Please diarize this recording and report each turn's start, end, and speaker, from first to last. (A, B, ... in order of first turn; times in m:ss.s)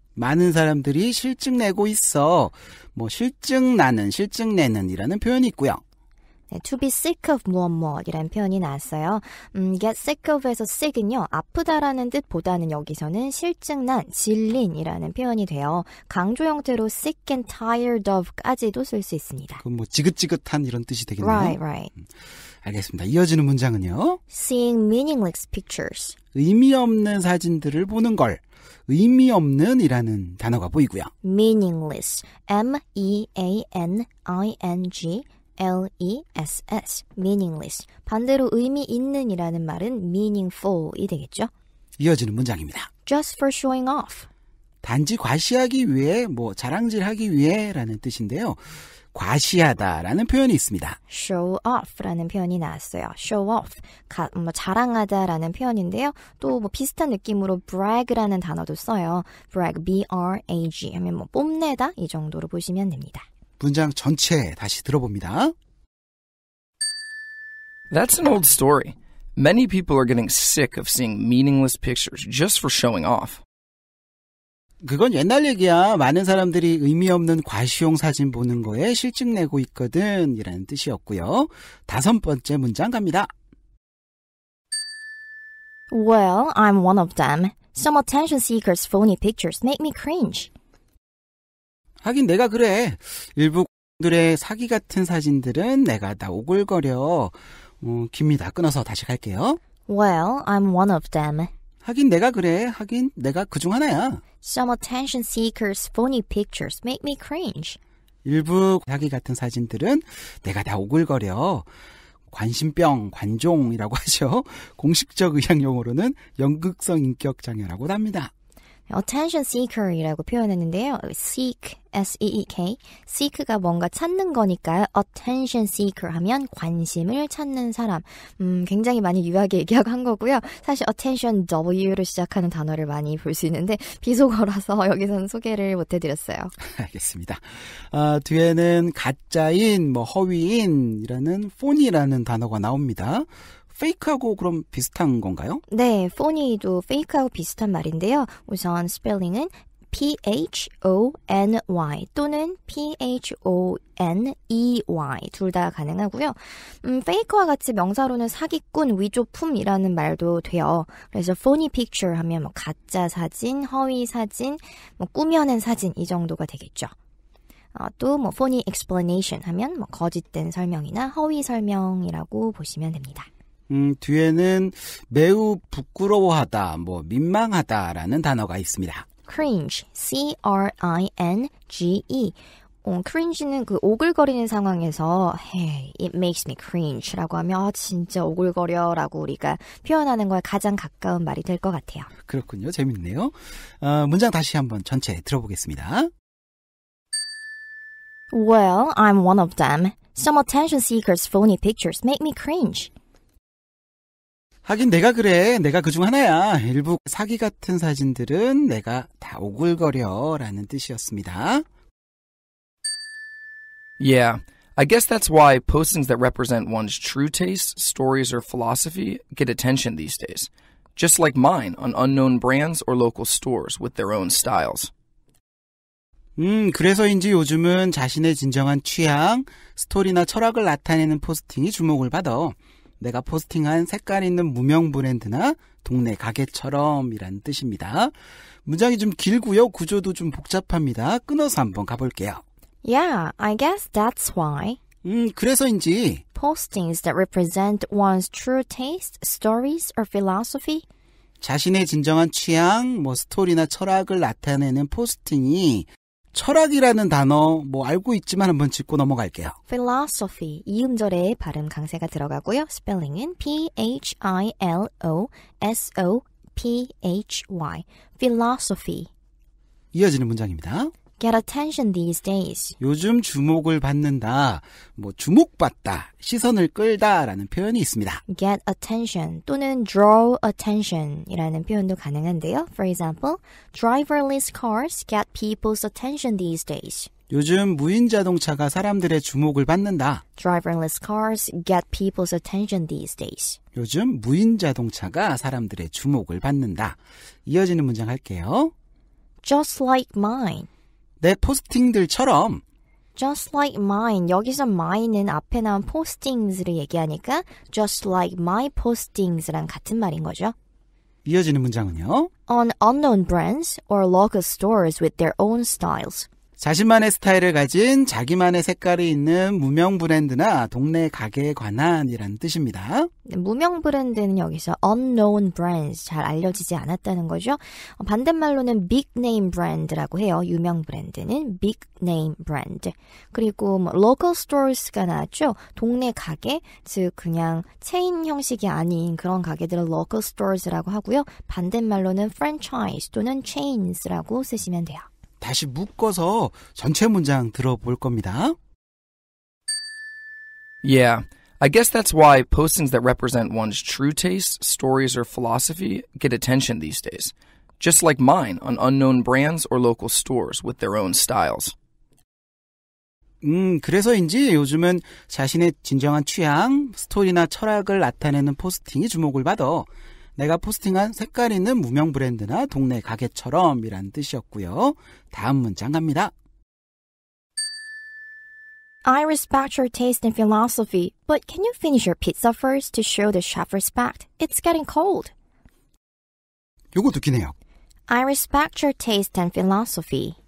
0:00.2-0:05.8 A
0:06.5-0:19.6 B
0:19.6-0:21.6 A
0:21.2-0:21.9 B
0:22.6-0:24.2 A
0:24.3-0:26.2 B
0:26.3-0:31.1 A
0:31.2-0:41.5 B
0:42.0-0:42.9 A
0:43.0-0:44.3 B
0:44.8-0:51.0 A
0:51.1-1:03.2 B
1:03.6-1:05.5 A
1:07.9-1:13.4 C
1:14.8-1:23.3 A
1:25.9-1:30.5 B
1:32.0-1:39.6 A
1:39.9-1:41.5 B
1:41.8-1:44.2 A
1:44.4-1:47.8 B
1:48.2-1:51.7 A
1:52.3-1:58.3 A
1:58.9-2:16.5 B
2:16.6-2:25.6 A
2:25.7-2:46.9 B
2:47.7-2:53.3 B
2:53.7-2:59.0 A
2:59.3-3:12.1 B
3:12.2-3:16.1 A
3:18.3-3:22.9 B
3:24.6-3:31.6 A
3:34.0-3:44.9 C
3:46.4-3:58.1 A
3:58.6-4:02.4 A
4:02.8-4:04.8 B
4:05.0-4:06.2 A
4:06.3-4:10.8 B
4:11.4-4:19.6 A
4:19.7-4:29.1 B
4:29.9-4:30.9 A
4:31.2-4:32.8 B
4:32.8-4:38.2 A
4:38.3-4:47.1 B
4:47.3-4:50.2 A
4:50.4-4:53.6 B
4:53.8-4:58.7 A
4:59.4-5:00.7 B
5:01.2-5:02.6 A
5:03.2-5:10.5 B
5:11.2-5:12.3 A
5:12.5-5:16.3 B
5:16.6-5:23.1 A
5:23.2-5:45.1 B
5:45.4-5:48.6 A
5:50.8-6:01.7 C
6:03.4-6:16.3 A
6:19.0-6:25.3 B
6:26.9-6:27.5 A
6:28.1-6:30.4 B